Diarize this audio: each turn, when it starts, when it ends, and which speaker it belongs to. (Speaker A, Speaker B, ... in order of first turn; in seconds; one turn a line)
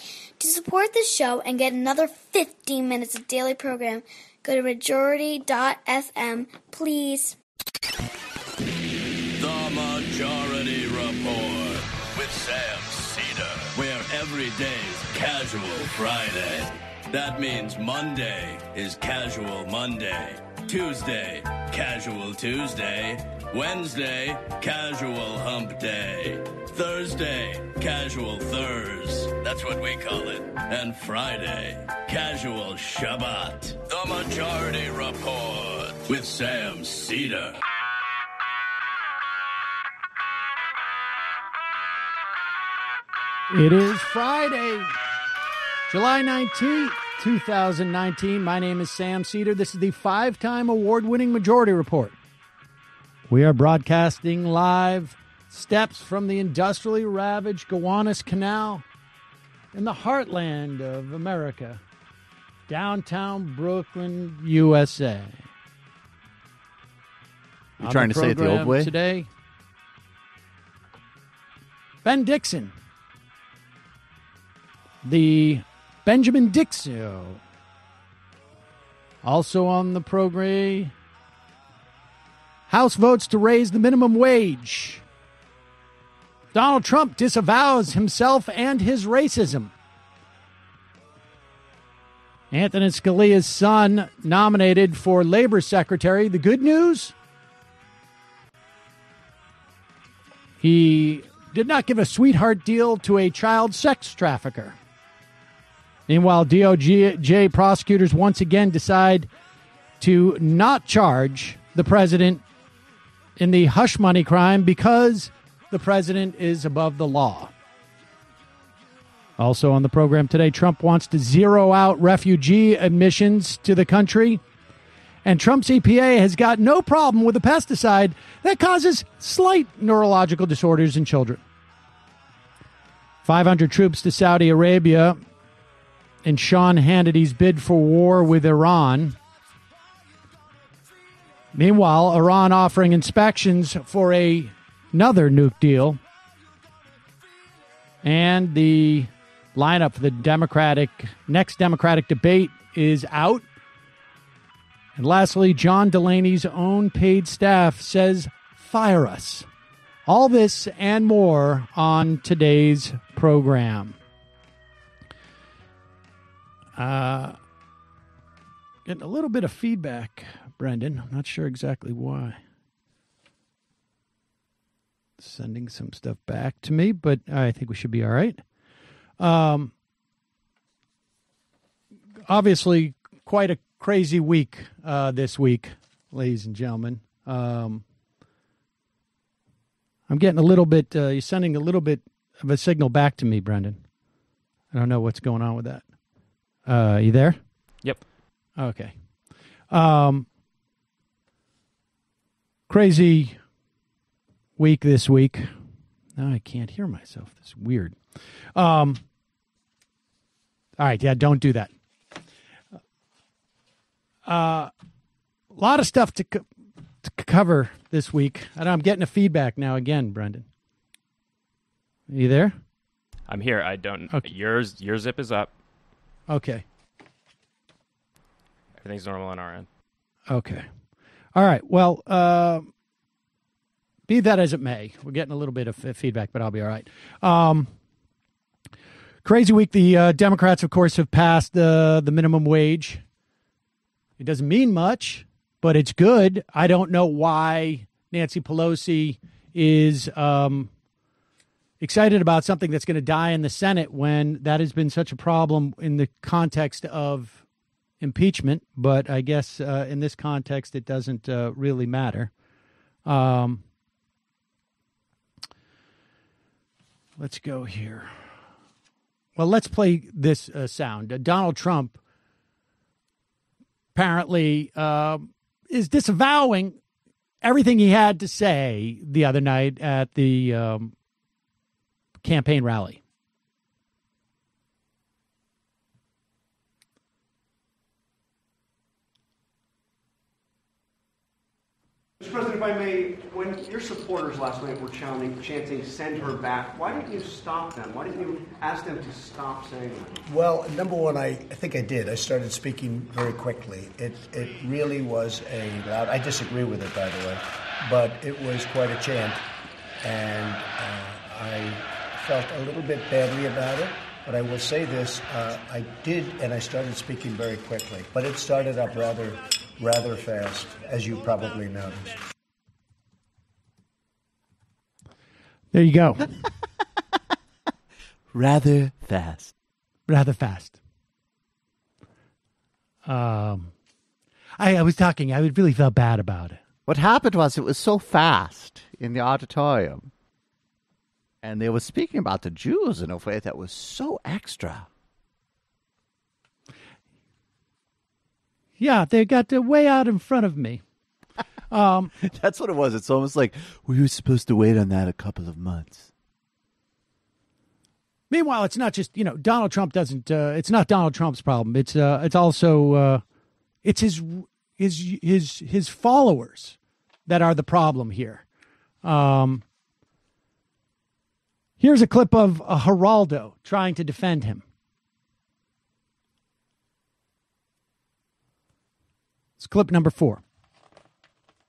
Speaker A: 0.4-7.3
Speaker B: 9.4-37.6
Speaker C: 43.5-44.9
Speaker C: 45.9-52.2
Speaker C: 53.3-58.8
Speaker C: 59.7-61.8
Speaker C: 62.7-65.4
Speaker D: 67.8-68.9
Speaker C: 67.8-69.3
Speaker C: 72.0-72.7
Speaker C: 75.0-77.4
Speaker C: 79.2-80.9
Speaker C: 82.7-85.0
Speaker C: 86.5-89.7
Speaker C: 92.5-97.1
Speaker C: 100.6-104.8
Speaker C: 106.1-109.3
Speaker C: 110.0-112.4
Speaker C: 113.4-117.5
Speaker C: 119.4-124.4
Speaker C: 125.2-131.4
Speaker C: 133.2-135.2
Speaker C: 136.2-139.2
Speaker C: 141.5-146.0
Speaker C: 148.0-153.4
Speaker C: 155.0-159.5
Speaker C: 160.1-164.0
Speaker C: 166.8-167.4
Speaker C: 168.8-172.4
Speaker C: 175.2-178.4
Speaker C: 179.2-179.7
Speaker C: 182.3-187.8
Speaker C: 190.1-193.8
Speaker C: 194.7-195.8
Speaker C: 196.7-197.4
Speaker C: 198.6-198.9
Speaker C: 199.7-200.3
Speaker C: 202.7-203.3
Speaker C: 204.6-205.5
Speaker C: 206.2-208.0
Speaker C: 208.5-209.0
Speaker C: 210.8-211.7
Speaker C: 214.3-214.7
Speaker C: 215.5-216.5
Speaker C: 217.0-220.4
Speaker C: 222.1-222.5
Speaker E: 223.3-225.5
Speaker C: 226.3-226.6
Speaker E: 228.8-229.7
Speaker C: 230.3-230.7
Speaker C: 231.3-232.7
Speaker C: 234.1-237.7
Speaker C: 239.2-243.0
Speaker C: 244.2-250.7
Speaker C: 251.8-257.4
Speaker C: 258.0-262.3
Speaker C: 263.1-263.6
Speaker C: 267.2-268.1
Speaker C: 269.4-272.0
Speaker C: 273.9-276.8
Speaker C: 277.4-280.9
Speaker C: 282.2-283.0
Speaker F: 292.2-300.2
Speaker G: 300.2-309.4
Speaker G: 310.0-322.2
Speaker C: 325.7-326.3
Speaker D: 328.3-329.5
Speaker C: 330.1-330.8
Speaker C: 333.1-333.7
Speaker C: 334.6-336.6
Speaker D: 336.9-340.1
Speaker D: 341.4-344.9
Speaker C: 348.8-350.8
Speaker C: 351.7-352.1
Speaker D: 352.2-356.1
Speaker C: 358.3-363.2
Speaker C: 363.8-368.4
Speaker C: 369.0-369.6
Speaker C: 371.8-374.6
Speaker C: 379.6-380.4